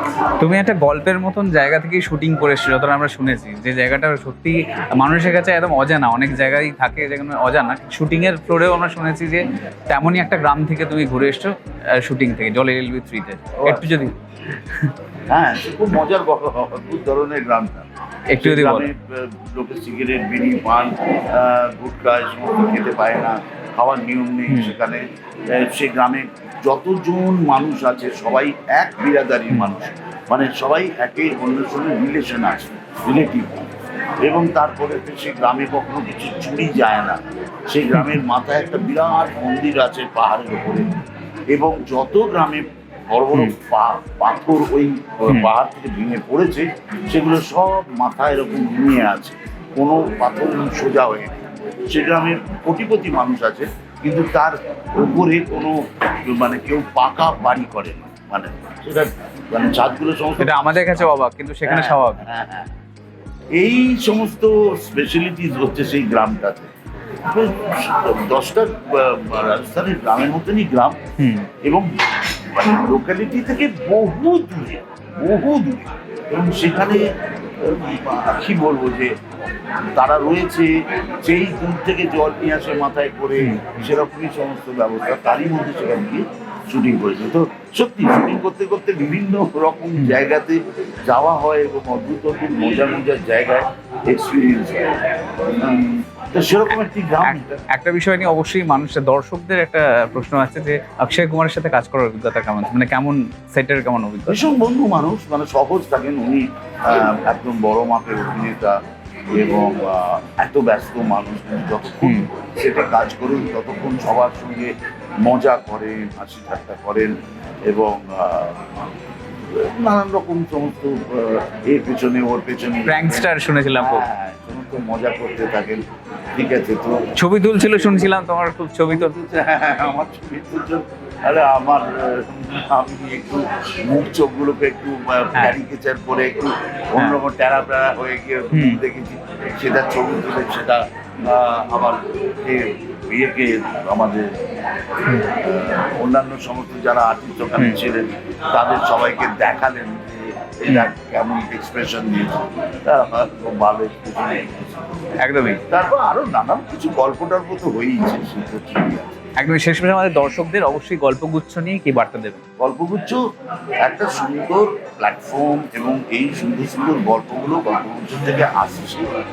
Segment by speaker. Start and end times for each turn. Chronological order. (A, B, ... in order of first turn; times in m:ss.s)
0:00.4-0:14.1 A
0:13.6-0:14.0 B
0:14.7-0:14.9 A
0:15.3-0:33.7 B
0:18.3-0:18.9 A
0:24.5-0:24.7 A
0:34.2-0:40.9 B
0:37.9-0:38.2 A
0:41.5-0:51.4 B
0:51.9-1:01.1 B
1:00.4-1:02.2 A
1:01.6-1:02.7 B
1:03.6-1:06.7 B
1:07.2-1:11.0 B
1:11.2-1:11.5 A
1:11.6-1:17.1 B
1:17.6-1:34.9 B
1:23.4-1:23.9 A
1:30.0-1:30.2 A
1:35.5-1:37.6 B
1:37.2-1:44.4 A
1:44.3-1:48.8 B
1:49.3-1:57.1 B
1:52.0-1:52.3 A
1:57.7-1:58.6 B
1:59.5-2:05.8 B
2:02.8-2:04.1 A
2:06.4-2:07.0 B
2:07.2-2:09.1 A
2:07.5-2:08.1 B
2:08.8-2:24.3 B
2:18.5-2:18.8 A
2:25.2-2:35.1 B
2:35.2-2:35.6 A
2:35.7-2:39.0 B
2:39.4-2:42.4 A
2:42.6-2:43.2 B
2:43.8-2:49.1 B